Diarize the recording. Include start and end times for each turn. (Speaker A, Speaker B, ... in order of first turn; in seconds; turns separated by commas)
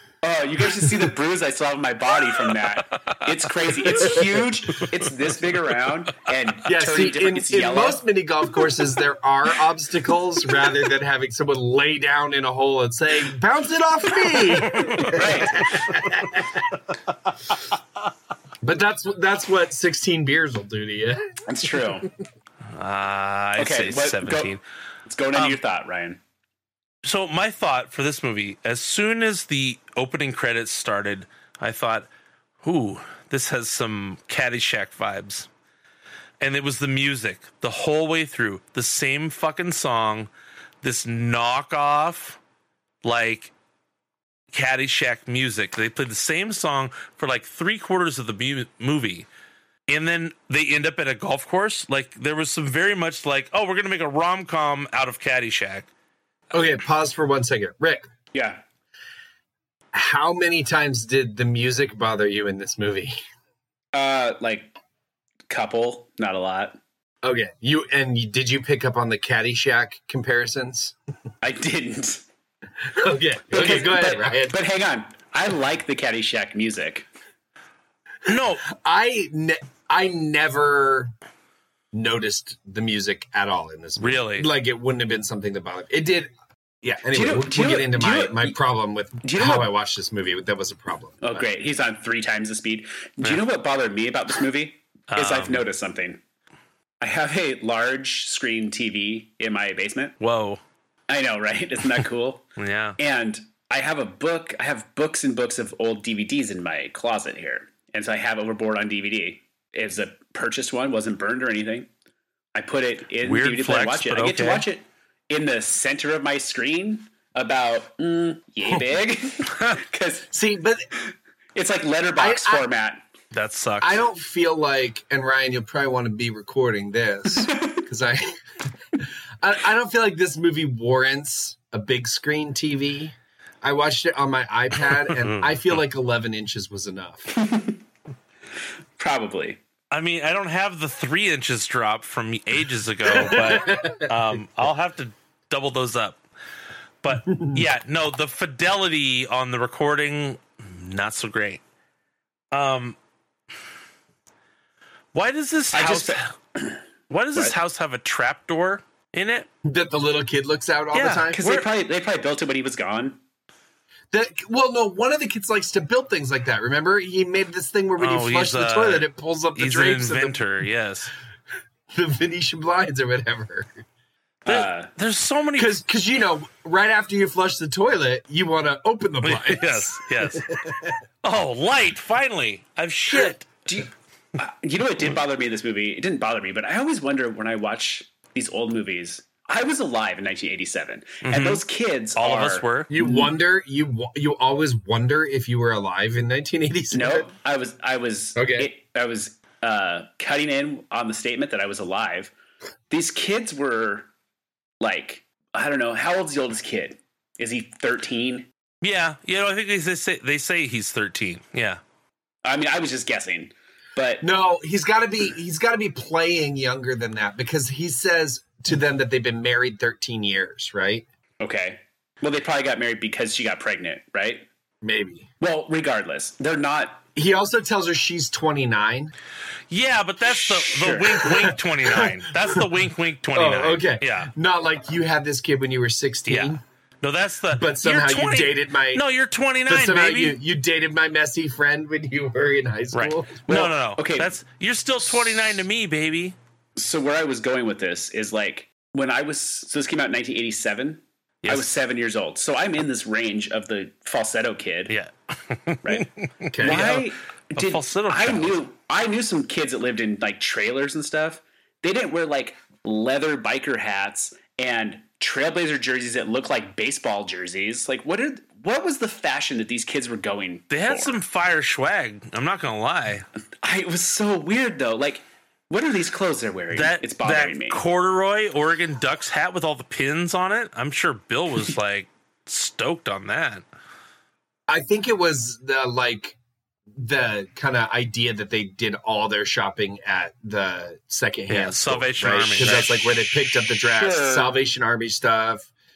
Speaker A: 0.2-8.0, Speaker B: 6.7-16.7, Speaker C: 14.5-16.2, Speaker A: 15.1-15.8, Speaker B: 18.6-22.0, Speaker A: 21.5-22.1, Speaker C: 22.8-24.6, Speaker A: 23.6-26.2, Speaker C: 27.0-32.1, Speaker C: 32.6-35.5, Speaker C: 36.4-40.3, Speaker C: 40.8-42.4, Speaker C: 43.0-43.5, Speaker C: 44.5-49.3, Speaker C: 49.9-55.9, Speaker B: 56.5-58.1, Speaker A: 58.3-58.6, Speaker B: 59.9-63.2, Speaker A: 63.9-64.8, Speaker A: 65.5-66.8, Speaker B: 67.2-71.0, Speaker A: 71.4-72.2, Speaker B: 72.8-74.6, Speaker A: 73.5-77.1, Speaker C: 78.3-78.7, Speaker B: 78.3-81.1, Speaker B: 81.9-86.3, Speaker C: 84.0-84.5, Speaker B: 86.8-91.5, Speaker A: 87.1-88.6, Speaker A: 89.2-89.7, Speaker A: 91.2-96.2, Speaker C: 95.1-95.6, Speaker A: 97.0-100.2, Speaker C: 100.2-100.6, Speaker A: 101.1-102.4, Speaker C: 102.6-103.0, Speaker A: 103.0-111.9, Speaker A: 112.5-120.3, Speaker C: 113.2-114.7, Speaker B: 120.3-120.9, Speaker A: 121.5-123.0, Speaker B: 122.2-122.7, Speaker C: 123.3-124.0, Speaker B: 123.8-128.4, Speaker A: 127.5-127.8, Speaker B: 129.0-137.3, Speaker C: 135.0-135.5, Speaker A: 137.4-137.8, Speaker A: 139.0-139.6, Speaker C: 139.9-146.2, Speaker B: 143.1-144.1, Speaker C: 147.0-151.6, Speaker B: 147.3-147.6, Speaker C: 152.5-153.0, Speaker C: 155.1-156.3, Speaker A: 155.7-156.8, Speaker C: 157.1-159.5, Speaker B: 159.6-161.6, Speaker C: 160.9-161.6, Speaker A: 161.3-163.2, Speaker B: 164.1-170.4, Speaker C: 168.0-171.1, Speaker B: 171.9-173.8, Speaker A: 174.4-174.9, Speaker C: 174.5-175.8, Speaker B: 175.6-181.0, Speaker C: 179.2-180.5, Speaker C: 181.2-183.5, Speaker A: 183.7-193.1, Speaker C: 191.2-191.6, Speaker C: 192.2-192.9, Speaker B: 192.9-197.3, Speaker A: 196.9-202.3, Speaker B: 198.4-198.7, Speaker A: 202.9-204.1, Speaker A: 204.8-208.5, Speaker C: 208.8-211.8, Speaker A: 212.4-214.3, Speaker B: 214.2-221.1, Speaker A: 221.4-224.5, Speaker B: 224.8-225.3, Speaker A: 225.4-227.0, Speaker B: 227.2-229.1, Speaker C: 229.7-234.3, Speaker A: 230.3-231.3, Speaker B: 231.2-232.7, Speaker B: 233.3-236.6, Speaker C: 236.3-240.4, Speaker B: 237.5-239.0, Speaker B: 239.7-243.4, Speaker C: 242.9-246.4, Speaker A: 243.5-244.4, Speaker A: 246.8-254.9, Speaker C: 251.4-251.7, Speaker C: 254.9-258.6, Speaker A: 255.8-271.2, Speaker B: 256.5-256.9, Speaker C: 270.7-273.3, Speaker A: 273.6-277.8, Speaker C: 276.7-283.6, Speaker B: 284.7-286.4, Speaker B: 286.9-295.7, Speaker C: 291.5-293.6, Speaker A: 293.8-294.6